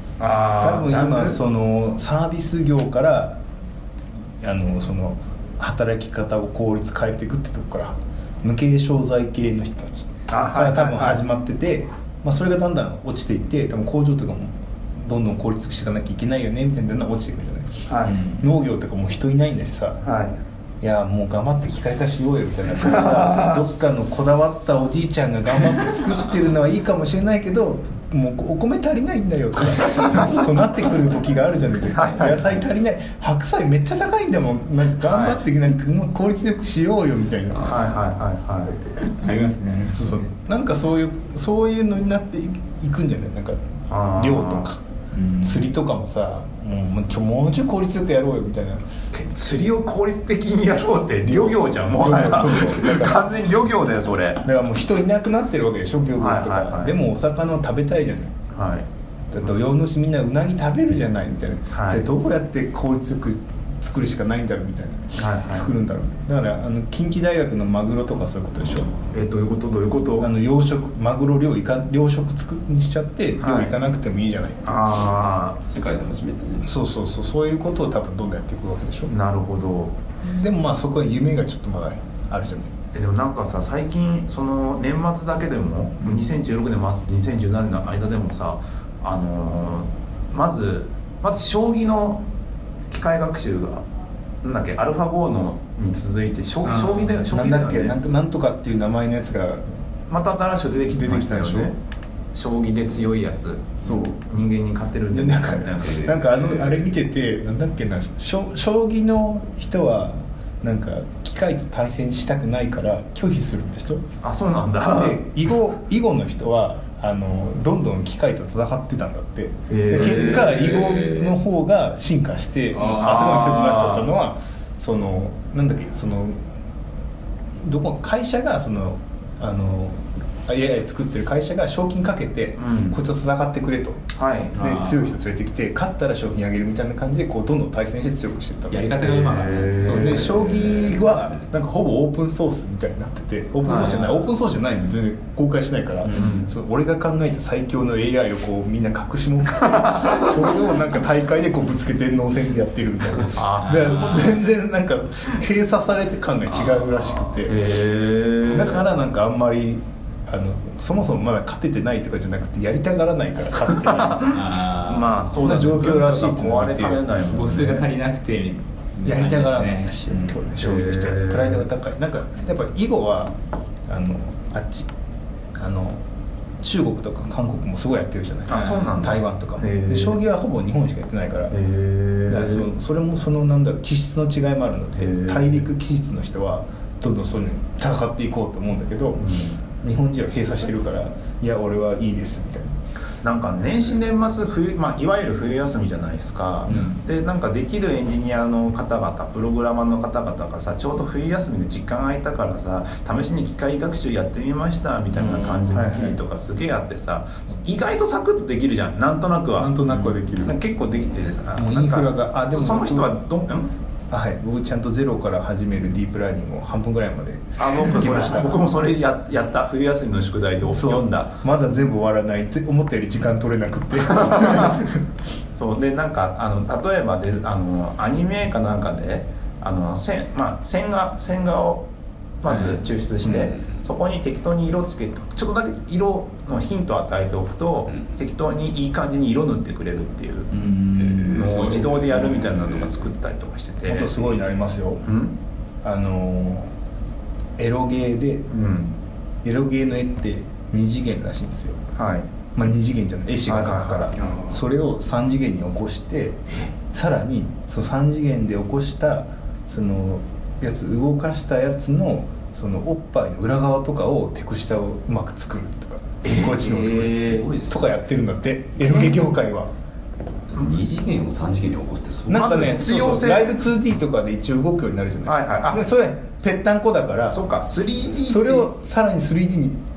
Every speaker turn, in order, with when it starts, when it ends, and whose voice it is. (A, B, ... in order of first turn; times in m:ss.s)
0:00.2-0:01.4 A
0:00.6-0:03.4 B
0:04.4-0:20.0 B
0:10.3-0:11.2 A
0:17.9-0:18.2 A
0:18.0-0:18.4 C
0:20.0-0:20.4 A
0:20.8-0:38.0 B
0:23.2-0:23.5 A
0:31.9-0:32.6 A
0:35.0-0:35.4 A
0:37.6-0:38.8 A
0:39.0-0:40.2 C
0:39.8-0:44.8 B
0:43.9-0:44.7 A
0:45.1-0:45.6 C
0:45.4-0:48.9 B
0:49.1-0:54.4 A
0:51.3-0:53.3 B
0:54.4-0:58.4 B
0:56.2-0:57.0 A
0:58.5-0:58.9 A
0:59.3-1:08.9 B
1:01.7-1:02.0 A
1:05.1-1:05.7 A
1:09.1-1:10.3 A
1:10.2-1:14.8 B
1:13.4-1:13.8 A
1:14.6-1:15.6 A
1:15.6-1:16.7 D
1:16.6-1:19.1 B
1:19.1-1:20.0 A
1:20.2-1:22.7 B
1:22.9-1:32.3 A
1:32.9-1:33.9 A
1:34.4-1:38.0 A
1:36.6-1:37.3 C
1:37.3-1:39.6 B
1:40.1-1:41.8 A
1:41.0-1:41.7 B
1:42.3-1:46.6 A
1:43.8-1:44.1 B
1:45.1-1:54.0 B
1:54.2-1:55.2 A
1:54.9-2:06.4 B
1:59.7-2:00.8 A
2:00.1-2:01.3 C
2:02.7-2:03.2 C
2:02.9-2:04.1 A
2:07.6-2:19.1 B
2:12.6-2:13.0 A
2:14.1-2:14.6 A
2:14.6-2:15.0 C
2:18.7-2:21.0 C
2:19.0-2:20.3 A
2:19.8-2:37.7 B
2:23.6-2:24.1 A
2:23.7-2:24.2 C
2:26.0-2:26.3 C
2:26.2-2:26.5 A
2:33.3-2:34.3 A
2:33.6-2:34.3 C
2:37.4-2:38.9 A
2:38.5-2:44.4 B
2:43.9-2:47.9 A
2:44.3-2:45.6 C
2:45.4-2:47.1 B
2:47.2-2:50.5 C
2:49.0-2:54.9 B
2:50.6-2:51.6 A
2:55.5-2:56.0 B
2:56.6-3:01.6 B
2:58.5-3:00.2 A
2:58.5-2:59.1 C
3:01.5-3:02.7 A
3:02.3-3:12.7 B
3:05.0-3:05.6 A
3:09.2-3:09.6 A
3:13.2-3:29.8 A
3:16.7-3:17.0 C
3:25.1-3:25.9 C
3:25.7-3:26.2 B
3:29.6-3:30.6 B
3:29.9-3:30.2 C
3:30.4-3:33.7 A
3:31.6-3:33.2 B
3:34.1-3:38.6 B
3:37.6-3:41.4 A
3:40.7-3:45.0 B
3:44.2-3:44.7 A
3:45.6-3:51.9 A
3:52.4-4:00.5 A
3:53.3-3:53.6 D
4:00.5-4:02.8 C
4:01.0-4:01.6 D
4:01.2-4:04.2 A
4:03.8-4:05.0 B
4:05.0-4:05.4 A
4:05.8-4:06.7 B
4:07.6-4:08.5 B
4:08.5-4:09.0 A
4:09.4-4:11.8 B
4:11.9-4:12.3 A
4:12.6-4:29.7 B
4:13.4-4:14.3 A
4:14.2-4:14.6 C
4:26.2-4:26.6 A
4:26.4-4:27.9 D
4:26.6-4:27.4 C
4:28.8-4:29.2 A
4:30.5-4:32.7 D
4:32.3-4:37.4 B
4:32.3-4:33.5 A
4:35.2-4:35.9 A
4:37.3-4:38.7 A
4:38.3-4:39.8 B